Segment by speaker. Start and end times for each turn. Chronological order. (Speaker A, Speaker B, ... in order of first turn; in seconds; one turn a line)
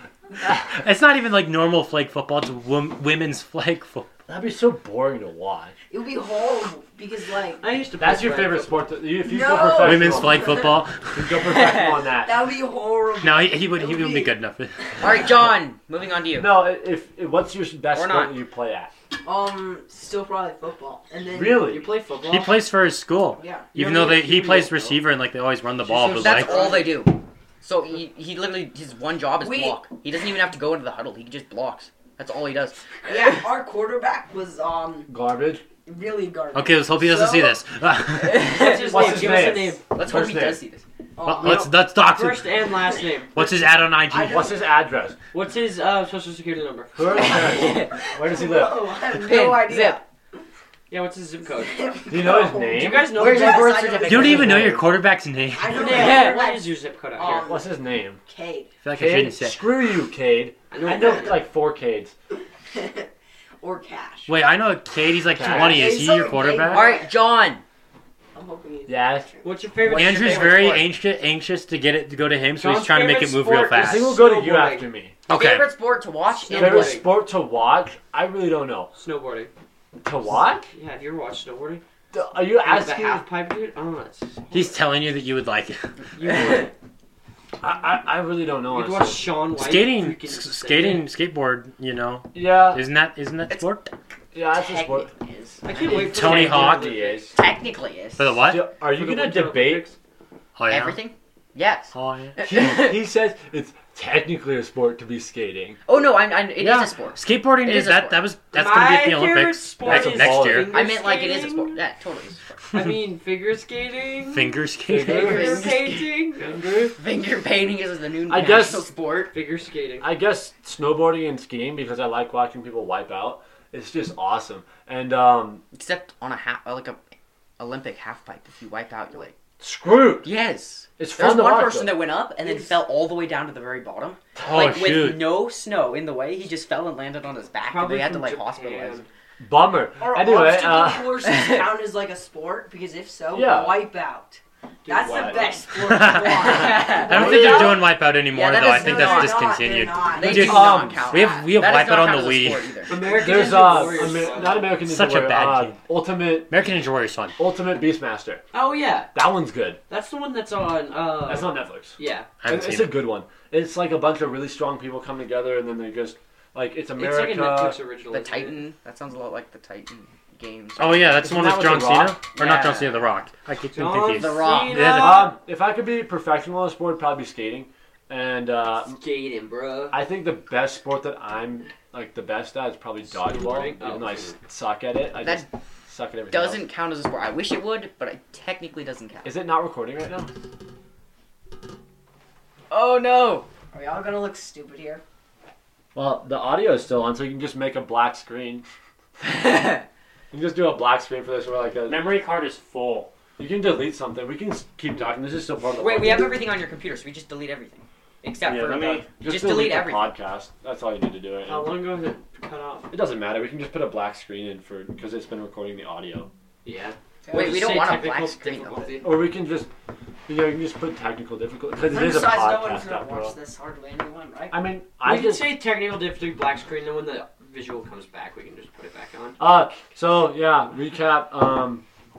Speaker A: 0.4-4.1
Speaker B: 4.3-5.8
Speaker C: 5.9-7.6
Speaker D: 7.6-8.8
Speaker B: 8.0-12.4
Speaker C: 9.2-10.8
Speaker A: 9.8-11.4
Speaker E: 11.4-12.0
Speaker C: 12.1-14.3
Speaker A: 13.2-14.8
Speaker E: 15.0-16.6
Speaker B: 16.4-18.9
Speaker E: 17.9-18.4
Speaker C: 19.2-21.8
Speaker B: 21.3-21.9
Speaker D: 21.6-22.6
Speaker A: 22.2-26.6
Speaker C: 23.4-23.7
Speaker D: 23.7-25.0
Speaker D: 25.8-26.9
Speaker E: 26.1-33.5
Speaker C: 29.4-29.8
Speaker C: 33.1-35.1
Speaker B: 35.1-35.6
Speaker C: 35.8-37.6
Speaker A: 36.5-38.7
Speaker E: 38.3-40.8
Speaker D: 38.4-39.8
Speaker B: 38.6-40.6
Speaker C: 41.2-41.7
Speaker A: 41.2-42.5
Speaker D: 41.3-43.4
Speaker A: 43.4-44.5
Speaker C: 44.1-44.5
Speaker B: 44.1-45.2
Speaker D: 45.3-47.3
Speaker B: 47.0-49.1
Speaker C: 47.1-50.0
Speaker E: 47.3-48.0
Speaker E: 49.0-50.0
Speaker D: 50.9-54.5
Speaker C: 51.5-54.6
Speaker B: 52.1-53.2
Speaker E: 53.2-54.2
Speaker A: 54.0-56.0
Speaker B: 54.2-55.0
Speaker C: 55.5-57.7
Speaker D: 55.7-57.5
Speaker E: 55.9-56.4
Speaker B: 57.4-58.2
Speaker C: 58.2-58.7
Speaker A: 58.8-59.6
Speaker B: 59.0-62.1
Speaker D: 60.7-61.4
Speaker C: 62.7-63.1
Speaker C: 63.6-64.3
Speaker A: 64.3-66.9
Speaker B: 65.4-66.0
Speaker C: 65.4-67.1
Speaker E: 66.7-67.6
Speaker C: 68.3-69.7
Speaker B: 68.9-69.3
Speaker D: 69.4-70.9
Speaker B: 69.8-70.4
Speaker A: 69.9-74.2
Speaker D: 72.5-74.9
Speaker B: 73.7-75.2
Speaker A: 75.3-75.7
Speaker E: 75.3-77.0
Speaker D: 76.4-77.1
Speaker B: 76.5-78.9
Speaker D: 79.0-79.5
Speaker B: 80.0-80.7
Speaker D: 80.7-81.8
Speaker B: 82.1-83.2
Speaker D: 82.6-84.5
Speaker A: 84.5-85.9
Speaker D: 86.2-86.7
Speaker B: 87.6-89.3
Speaker D: 88.7-91.1
Speaker A: 89.5-93.8
Speaker B: 92.3-92.8
Speaker E: 93.5-93.9
Speaker B: 94.3-95.1
Speaker E: 94.5-95.6
Speaker D: 95.6-97.4
Speaker B: 95.7-97.3
Speaker A: 95.8-96.9
Speaker E: 97.3-98.4
Speaker A: 98.2-98.7
Speaker B: 98.5-99.9
Speaker D: 98.9-100.0
Speaker A: 100.6-101.0
Speaker E: 100.7-103.0
Speaker A: 101.9-102.4
Speaker B: 102.4-105.8
Speaker E: 105.9-108.3
Speaker A: 106.6-110.7
Speaker D: 108.5-111.8
Speaker B: 109.8-110.8
Speaker E: 110.7-112.6
Speaker D: 112.7-117.0
Speaker A: 114.3-115.6
Speaker B: 114.9-115.7
Speaker E: 115.1-119.3
Speaker B: 118.3-118.9
Speaker D: 119.3-120.1
Speaker B: 120.0-125.6
Speaker E: 125.7-127.0
Speaker E: 127.6-129.3
Speaker B: 129.6-130.3
Speaker E: 130.2-139.0
Speaker B: 131.0-132.0
Speaker C: 132.4-132.7
Speaker A: 134.4-135.4
Speaker D: 137.6-139.1
Speaker B: 139.4-141.2
Speaker C: 140.0-147.8
Speaker E: 141.3-141.7
Speaker B: 143.3-143.9
Speaker D: 144.8-145.7
Speaker B: 145.0-145.6
Speaker A: 145.8-152.7
Speaker E: 146.3-149.4
Speaker B: 147.1-147.7
Speaker C: 148.5-151.2
Speaker E: 150.1-154.1
Speaker B: 150.2-151.1
Speaker D: 152.9-154.8
Speaker B: 152.9-156.5
Speaker A: 154.8-155.8
Speaker A: 156.5-157.4
Speaker B: 157.4-158.5
Speaker D: 158.5-159.1
Speaker B: 159.1-159.8
Speaker D: 159.9-162.3
Speaker B: 161.2-167.8
Speaker A: 162.4-163.0
Speaker D: 167.0-168.6
Speaker E: 168.1-171.2
Speaker A: 170.8-175.3
Speaker B: 171.2-172.2
Speaker E: 172.3-173.0
Speaker D: 173.7-175.4
Speaker E: 174.1-175.0
Speaker B: 174.8-179.0
Speaker D: 178.9-180.0
Speaker B: 179.9-186.7
Speaker D: 183.2-184.3
Speaker E: 185.2-185.5
Speaker E: 186.3-189.3
Speaker B: 189.2-190.3
Speaker E: 192.7-193.5
Speaker C: 193.7-195.0
Speaker B: 195.9-198.7
Speaker E: 199.3-199.8
Speaker B: 200.3-202.1
Speaker A: 201.9-203.1
Speaker B: 203.4-206.4
Speaker E: 205.8-210.2
Speaker A: 208.4-209.0
Speaker B: 208.5-211.7
Speaker D: 211.4-212.9
Speaker B: 212.9-216.3
Speaker D: 216.7-219.1
Speaker C: 217.3-217.6
Speaker E: 217.3-219.0
Speaker B: 219.0-219.7
Speaker B: 220.3-223.4
Speaker C: 221.8-224.6
Speaker B: 224.5-225.6
Speaker D: 225.0-229.4
Speaker B: 229.4-231.8